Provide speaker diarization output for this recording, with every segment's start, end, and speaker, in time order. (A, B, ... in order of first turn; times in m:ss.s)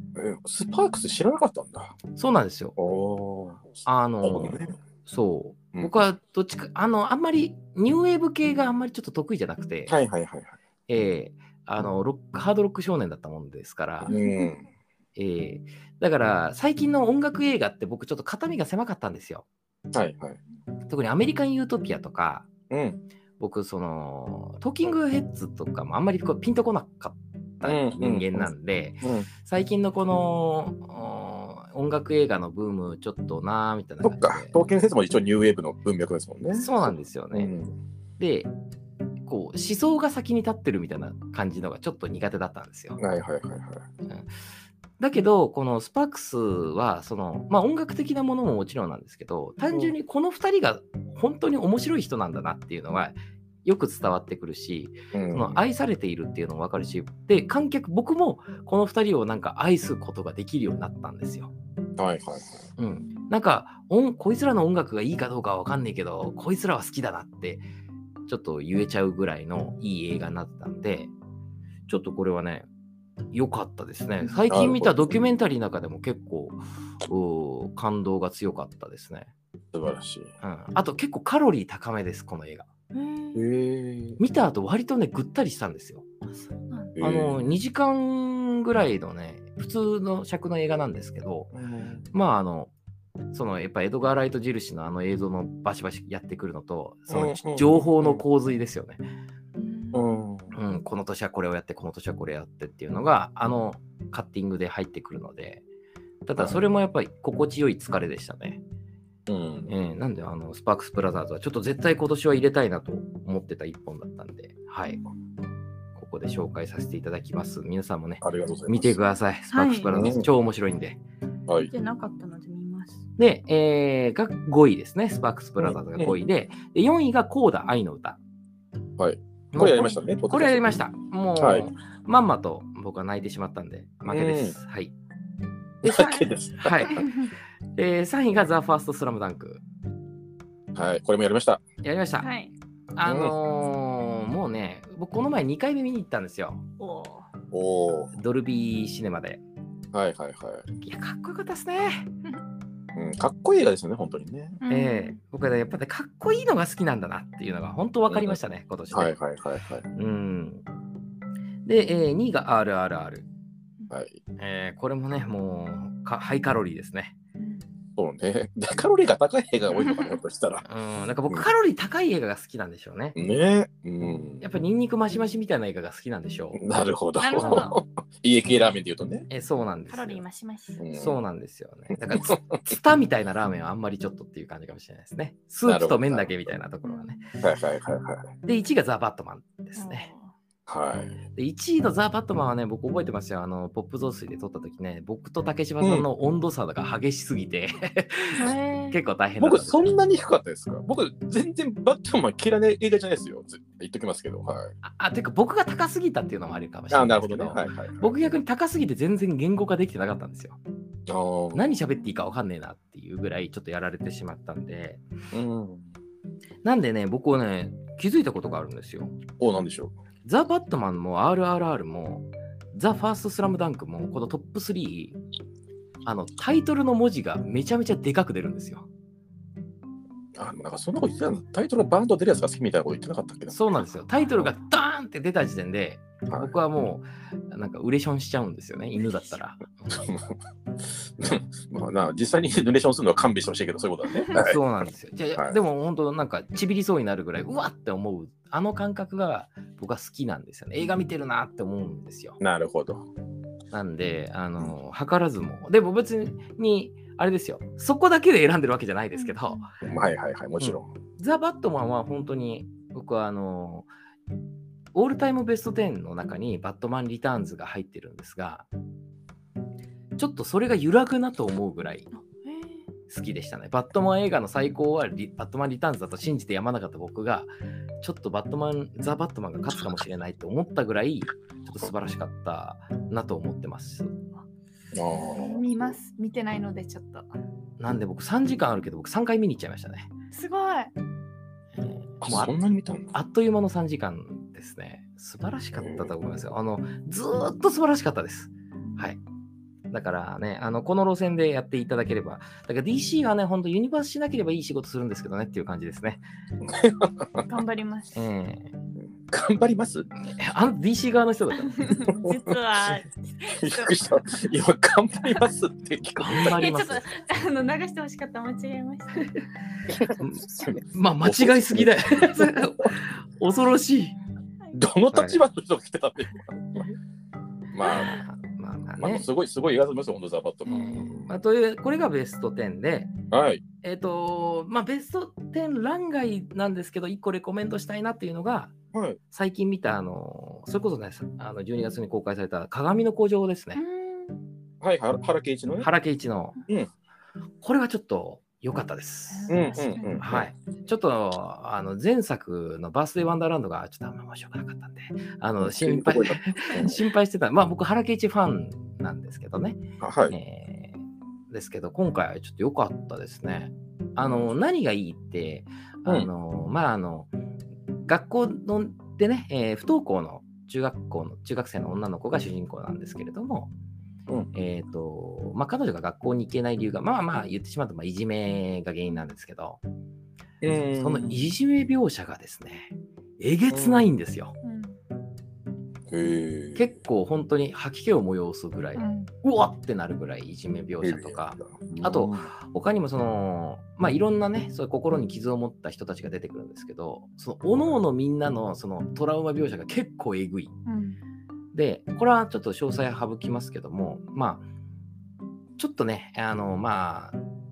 0:00.2-0:02.0 A
0:02.2-0:02.8 B
0:02.8-0:04.8 A
0:03.8-0:09.9 B
0:09.9-0:10.5 A
0:10.9-0:14.2 B
0:14.0-0:14.6 A
0:14.1-0:14.5 C
0:15.2-0:19.5 B
0:19.9-0:20.4 A
0:20.9-0:22.5 B
0:22.7-0:23.0 A
0:23.4-0:34.6 B
0:27.6-0:28.5 A
0:29.0-0:29.3 A
0:34.0-0:37.7 A
0:36.5-0:37.5 B
0:38.2-0:38.5 B
0:39.3-0:43.0 B
0:43.0-0:43.8 A
0:45.0-1:01.5 B
0:55.1-0:55.6 A
1:02.0-1:02.7 A
1:02.8-1:07.6 B
1:08.3-1:11.1 B
1:11.9-1:12.7 B
1:13.3-1:19.3 B
1:14.5-1:15.2 A
1:19.7-1:20.3 A
1:20.4-1:22.7 B
1:22.9-1:23.4 C
1:23.4-1:24.2 A
1:24.2-1:26.0 B
1:26.3-1:26.9 C
1:27.0-1:27.4 A
1:27.0-1:31.5 B
1:31.5-1:32.0 A
1:32.1-1:32.7 B
1:33.3-1:39.0 B
1:37.1-1:38.2 A
1:39.6-1:40.0 C
1:39.9-1:40.5 A
1:40.5-1:45.6 B
1:46.3-1:48.6 B
1:49.3-1:49.7 A
1:49.7-1:55.0 B
1:56.0-2:01.0 B
1:58.2-1:59.0 A
1:59.5-1:59.9 C
1:59.9-2:00.3 A
2:01.6-2:03.0 C
2:03.2-2:08.2 B
2:05.6-2:06.2 A
2:09.0-2:10.8 A
2:09.5-2:14.9 B
2:11.4-2:11.7 A
2:14.1-2:14.6 A
2:15.8-2:17.1 A
2:15.8-2:17.1 B
2:17.8-2:19.6 B
2:20.7-2:21.6 A
2:21.8-2:22.3 B
2:22.2-2:22.5 C
2:23.0-2:26.6 B
2:23.1-2:23.3 A
2:26.8-2:27.3 C
2:27.5-2:28.1 A
2:28.1-2:29.4 B
2:29.9-2:30.7 A
2:30.8-2:32.1 B
2:33.0-2:34.6 A
2:34.6-2:35.2 C
2:34.7-2:39.1 B
2:38.1-2:38.4 A
2:38.9-2:39.8 A
2:39.9-2:40.6 B
2:41.6-2:43.3 B
2:43.9-2:44.2 A
2:44.4-2:47.2 B
2:47.4-2:47.6 C
2:48.0-2:50.6 A
2:50.7-2:53.2 B
2:53.2-2:54.4 A
2:54.4-2:56.6 B
2:56.5-2:59.3 A
2:57.2-2:57.8 C
2:59.3-3:00.2 B
2:59.9-3:00.8 C
3:00.8-3:01.2 A
3:00.9-3:07.2 B
3:02.1-3:02.6 A
3:05.7-3:06.5 A
3:06.8-3:07.2 C
3:07.4-3:08.3 A
3:08.4-3:10.1 B
3:09.8-3:10.3 C
3:10.7-3:11.2 A
3:11.4-3:19.9 B
3:15.8-3:16.1 A
3:18.3-3:19.0 C
3:19.4-3:24.7 A
3:24.8-3:30.6 B
3:26.9-3:28.3 A
3:31.1-3:31.8 A
3:31.5-3:35.0 B
3:35.3-3:35.9 A
3:36.6-3:39.2 B
3:39.4-3:39.9 A
3:40.2-3:45.2 B
3:46.0-3:48.9 B
3:50.4-3:53.6 A
3:53.5-4:00.0 B
3:56.3-3:56.5 A
3:59.9-4:00.4 A
4:00.9-4:04.6 A
4:04.3-4:12.4 B
4:12.4-4:13.1 A
4:13.7-4:19.7 B
4:19.2-4:19.7 C
4:19.8-4:20.9 A
4:20.6-4:23.9 B
4:24.9-4:28.7 B
4:30.2-4:32.1 B
4:32.1-4:32.8 C
4:33.1-4:44.2 B
4:44.9-4:45.9 A
4:45.1-4:47.3 C
4:47.8-4:50.1 B
4:50.3-4:50.9 C
4:51.8-4:52.6 B
4:52.2-4:53.1 A
4:53.1-4:59.2 B
4:55.8-4:56.2 A
4:59.9-5:06.2 B
5:06.6-5:07.5 A
5:07.4-5:08.2 C
5:08.1-5:08.7 B
5:09.0-5:10.1 A
5:10.3-5:12.1 B
5:11.8-5:14.0 C
5:12.1-5:12.4 A
5:13.5-5:16.8 A
5:16.2-5:17.1 B
5:16.4-5:19.3 C
5:19.9-5:22.9 A
5:20.2-5:24.2 B
5:24.7-5:26.9 A
5:25.1-5:25.4 B
5:27.7-5:28.2 A
5:27.8-5:29.3 B
5:29.0-5:31.3 A
5:30.7-5:33.1 B
5:33.3-5:33.6 A
5:33.8-5:38.7 B
5:38.9-5:39.2 A
5:39.3-5:43.8 B
5:43.8-5:44.4 C
5:44.8-5:45.9 A
5:45.8-5:46.6 B
5:47.6-5:49.6 B
5:49.3-5:50.2 C
5:49.5-5:50.5 A
5:50.2-6:01.0 B
5:55.6-5:57.0 A
6:00.0-6:00.4 A
6:01.5-6:07.3 B
6:04.2-6:04.5 A
6:08.0-6:13.7 B
6:14.5-6:19.8 B
6:20.6-6:21.4 A
6:20.9-6:24.6 B
6:23.7-6:24.1 A
6:24.6-6:25.0 C
6:26.1-6:26.9 A
6:26.8-6:40.7 B
6:29.0-6:29.3 C
6:31.0-6:32.5 A
6:40.9-6:41.2 C
6:41.7-6:44.7 B
6:45.8-6:47.4 B